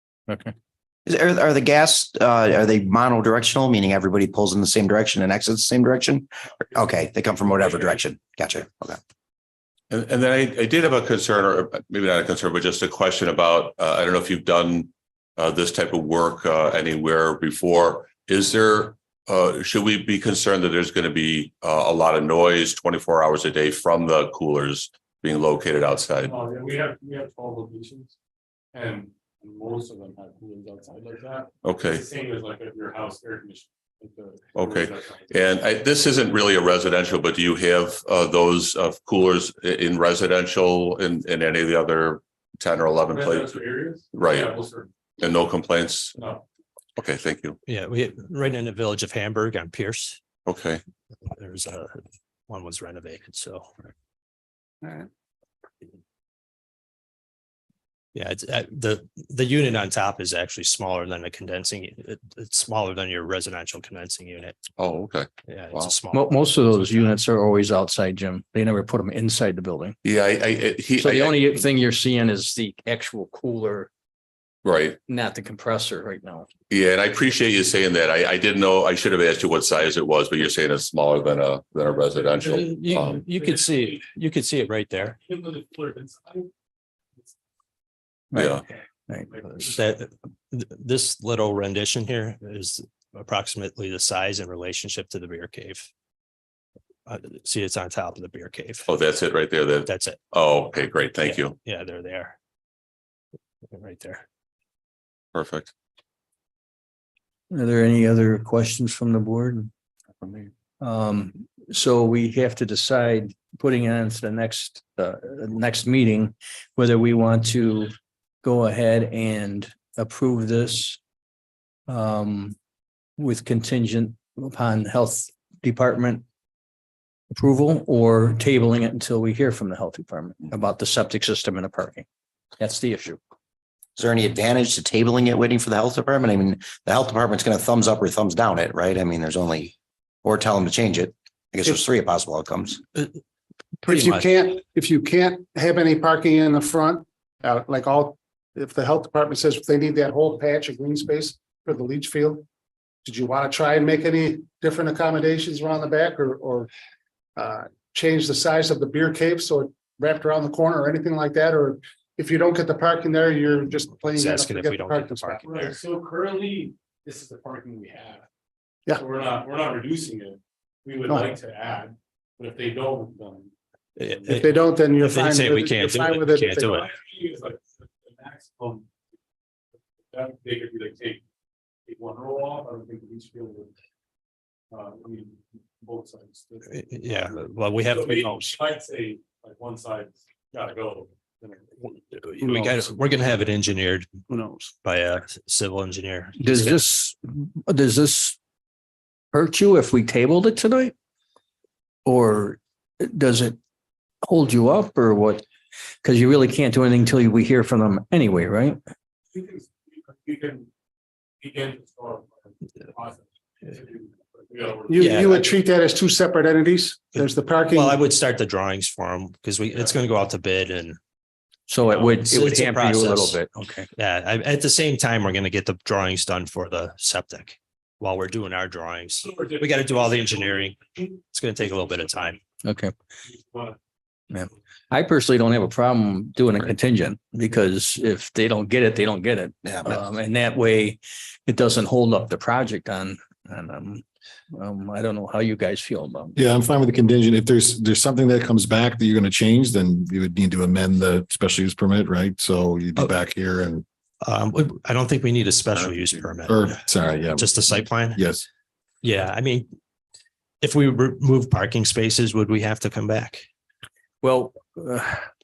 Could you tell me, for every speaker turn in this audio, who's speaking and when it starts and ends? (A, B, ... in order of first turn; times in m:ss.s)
0:00.3-0:00.5 A
0:01.1-0:09.0 B
0:09.9-0:26.3 C
0:26.2-0:28.1 D
0:28.7-0:35.2 D
0:31.6-0:32.0 C
0:34.6-0:43.6 C
0:43.1-0:44.9 D
0:44.1-0:44.5 C
0:45.2-0:46.2 C
0:46.2-0:46.4 D
0:47.0-0:47.6 C
0:47.7-0:50.2 E
0:50.5-0:50.8 C
0:51.3-0:53.7 E
0:58.2-1:04.6 E
1:04.8-1:05.9 C
1:05.5-1:07.1 E
1:06.1-1:10.0 A
1:10.0-1:11.5 C
1:11.0-1:13.9 A
1:14.6-1:15.0 C
1:15.1-1:16.5 A
1:16.7-1:23.2 C
1:22.1-1:22.6 D
1:22.6-1:25.2 A
1:23.4-1:24.0 D
1:25.2-1:26.5 D
1:28.3-1:29.3 A
1:28.4-1:28.6 C
1:29.6-1:35.9 E
1:37.1-1:38.9 E
1:38.9-1:41.6 C
1:39.8-1:40.2 E
1:41.2-1:42.4 E
1:43.7-1:44.2 E
1:45.3-1:45.7 C
1:47.5-1:49.7 A
1:50.8-2:01.0 A
2:01.9-2:02.6 A
2:03.2-2:06.2 A
2:07.3-2:12.1 A
2:12.6-2:13.2 A
2:14.0-2:22.8 B
2:23.8-2:24.2 E
2:23.9-2:32.5 F
2:33.0-2:36.7 F
2:37.4-2:45.6 F
2:44.0-2:45.8 E
2:45.4-2:48.2 D
2:48.9-2:53.5 D
2:51.1-2:51.3 F
2:54.0-2:56.9 E
2:54.4-2:56.7 F
2:56.7-2:58.9 D
3:00.1-3:01.2 D
3:01.9-3:03.7 D
3:04.7-3:06.7 D
3:06.7-3:08.5 E
3:07.9-3:11.7 D
3:12.2-3:14.1 E
3:14.3-3:14.6 F
3:14.8-3:16.8 E
3:16.4-3:18.4 A
3:19.3-3:20.9 A
3:22.0-3:23.6 A
3:24.2-3:25.4 A
3:26.0-3:28.8 A
3:29.3-3:30.7 D
3:31.4-3:35.0 D
3:34.9-3:38.0 F
3:35.0-3:35.4 E
3:37.2-3:41.0 E
3:41.7-3:43.9 A
3:42.2-3:43.4 E
3:44.0-3:50.8 E
3:49.2-3:51.1 D
3:51.3-3:52.4 E
3:52.6-3:52.9 A
3:53.3-3:53.8 D
3:54.3-4:06.4 A
3:59.6-3:59.9 B
4:06.4-4:13.8 G
4:14.2-4:16.8 E
4:16.4-4:18.4 G
4:17.4-4:18.2 E
4:19.0-4:19.7 E
4:20.6-4:23.5 E
4:24.2-4:25.3 A